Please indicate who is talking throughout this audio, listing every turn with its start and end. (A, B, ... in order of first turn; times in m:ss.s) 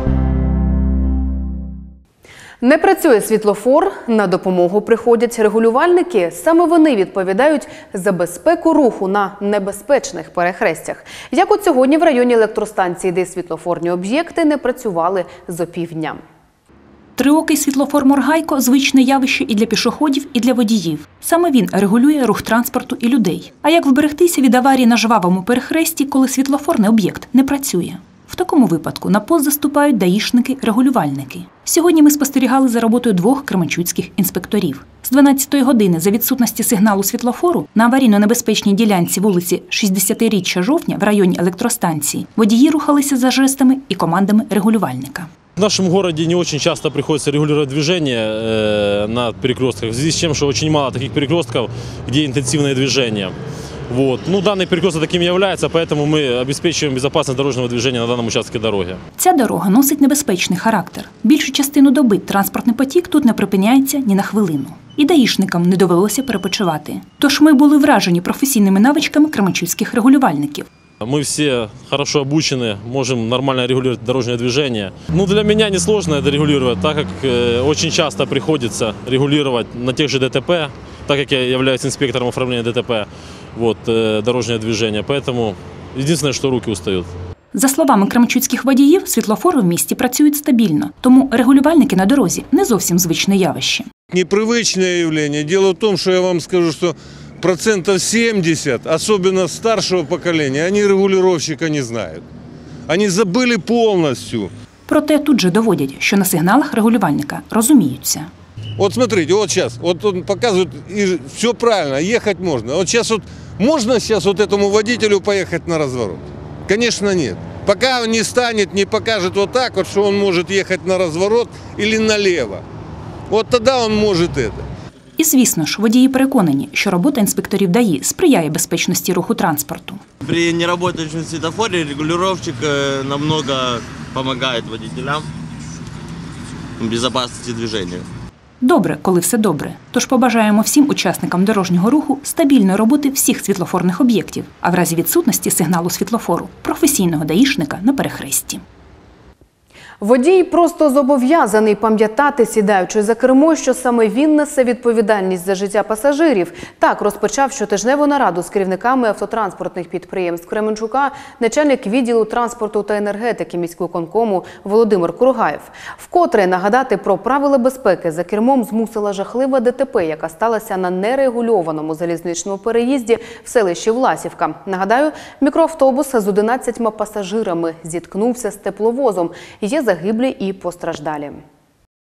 0:02.6-0:16.2 A
0:17.2-0:45.3 B
0:45.6-0:53.3 C
0:53.9-0:59.0 C
0:59.2-1:10.7 B
1:11.0-1:27.1 C
1:27.5-1:33.9 B
1:34.1-1:42.2 D
1:42.9-1:44.5 D
1:44.9-1:48.3 B
1:48.8-2:02.6 D
2:03.3-2:04.6 D
2:05.2-2:10.0 B
2:10.2-2:15.2 E
2:16.8-2:18.1 E
2:18.6-2:28.6 B
2:30.0-3:01.4 A